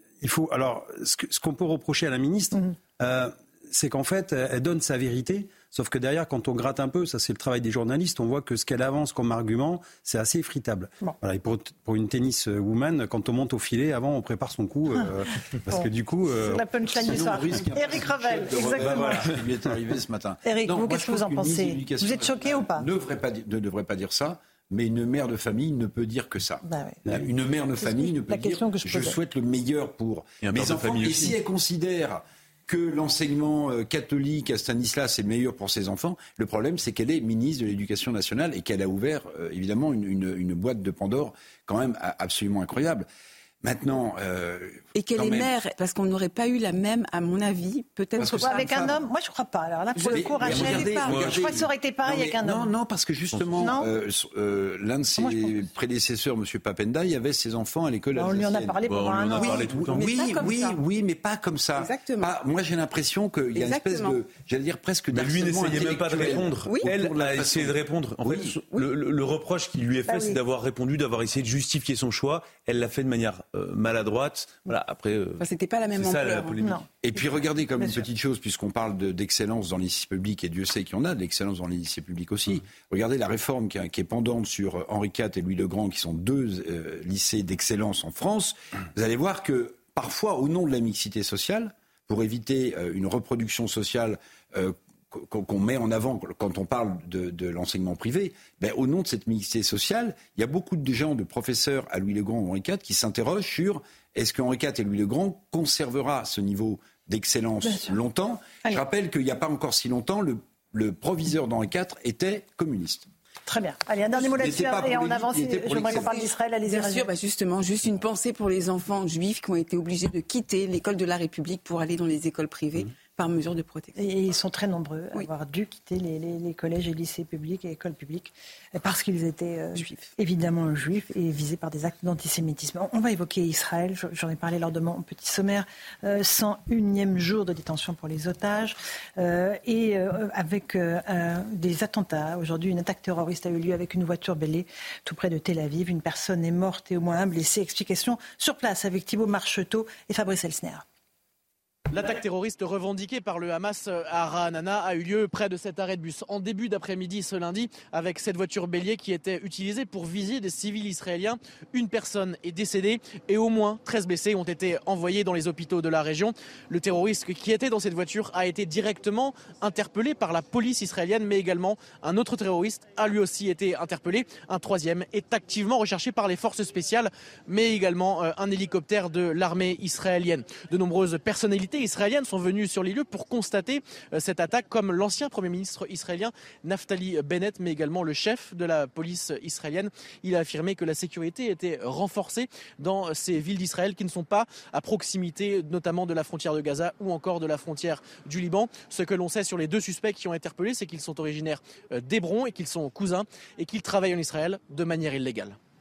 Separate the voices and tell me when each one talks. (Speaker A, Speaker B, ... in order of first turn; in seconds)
Speaker A: 0.2-16.6
Speaker B: 15.7-19.2, 20.4-22.9, 26.6-27.3, 27.8-29.2, 48.3-52.7, 53.6-53.9, 55.2-55.6, 58.1-60.6, 70.1-70.4, 76.6-77.2, 77.8-78.1, 107.6-108.0, 113.5-117.1, 124.0-150.8
Speaker C: 16.9-43.1, 43.6-45.5, 48.2-49.0, 50.0-58.8, 59.3-68.6, 77.0-113.1, 114.2-116.2
Speaker D: 30.4-31.4, 51.0-51.6, 53.3-53.7, 58.9-60.4, 65.1-76.8
Speaker E: 45.0-48.8, 50.0-51.0, 61.8-62.3, 63.5-64.2, 66.7-67.0, 75.4-76.6, 115.8-124.0, 129.7-130.1
Speaker F: 151.9-205.6